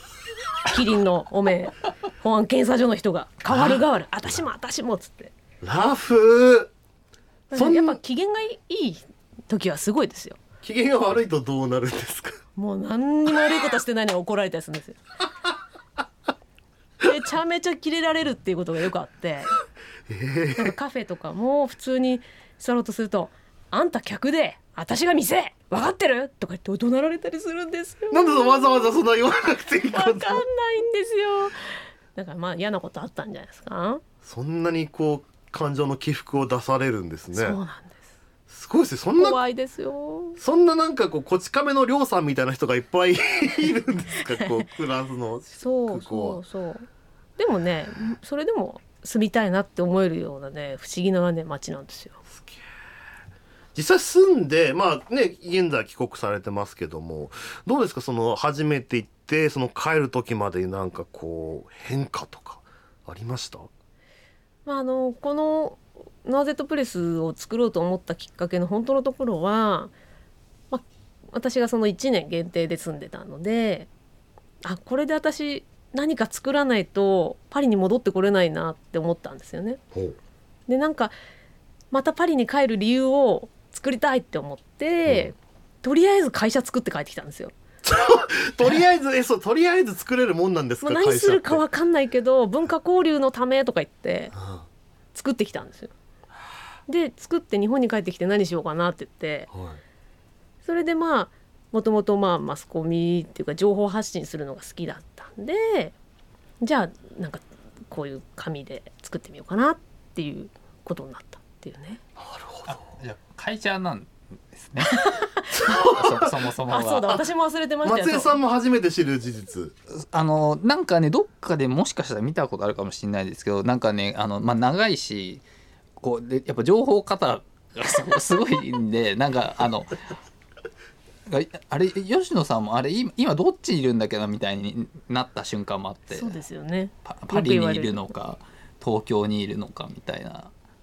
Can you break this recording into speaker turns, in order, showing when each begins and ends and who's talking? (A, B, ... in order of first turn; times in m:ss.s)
0:00.7-0:05.3 A
0:03.5-0:03.8 B
0:05.6-0:06.7 B
0:07.5-0:10.4 A
0:07.5-0:08.0 B
0:10.6-0:12.4 B
0:12.6-0:15.0 A
0:17.0-0:19.5 A
0:20.1-0:20.7 B
0:20.6-0:29.0 A
0:28.1-0:30.4 B
0:29.9-0:31.6 A
0:32.1-0:34.0 A
0:34.2-0:37.6 B
0:37.3-0:38.0 A
0:38.5-0:39.4 B
0:39.2-0:40.4 A
0:40.4-0:46.4 B
0:44.4-0:44.6 A
0:45.6-0:46.9 A
0:47.4-0:52.2 A
0:52.3-0:52.6 B
0:53.7-1:03.7 B
1:04.6-1:09.9 A
1:10.7-1:13.9 A
1:14.6-1:19.8 A
1:20.7-1:21.1 A
1:21.9-1:27.5 A
1:25.0-1:25.3 B
1:27.8-1:31.6 B
1:30.8-1:34.3 A
1:34.3-1:34.7 B
1:35.1-1:35.9 A
1:36.9-1:39.5 A
1:39.5-1:39.8 B
1:40.6-1:45.9 A
1:46.6-1:52.0 A
1:52.2-1:52.8 B
1:52.7-1:55.1 C
1:54.8-1:55.9 A
1:55.6-1:56.4 B
1:55.7-1:57.1 C
1:56.7-1:58.4 A
1:57.8-1:59.7 B
2:00.1-2:05.4 C
2:06.0-2:10.0 C
2:11.3-2:16.4 C
2:16.1-2:18.1 A
2:17.0-2:20.5 C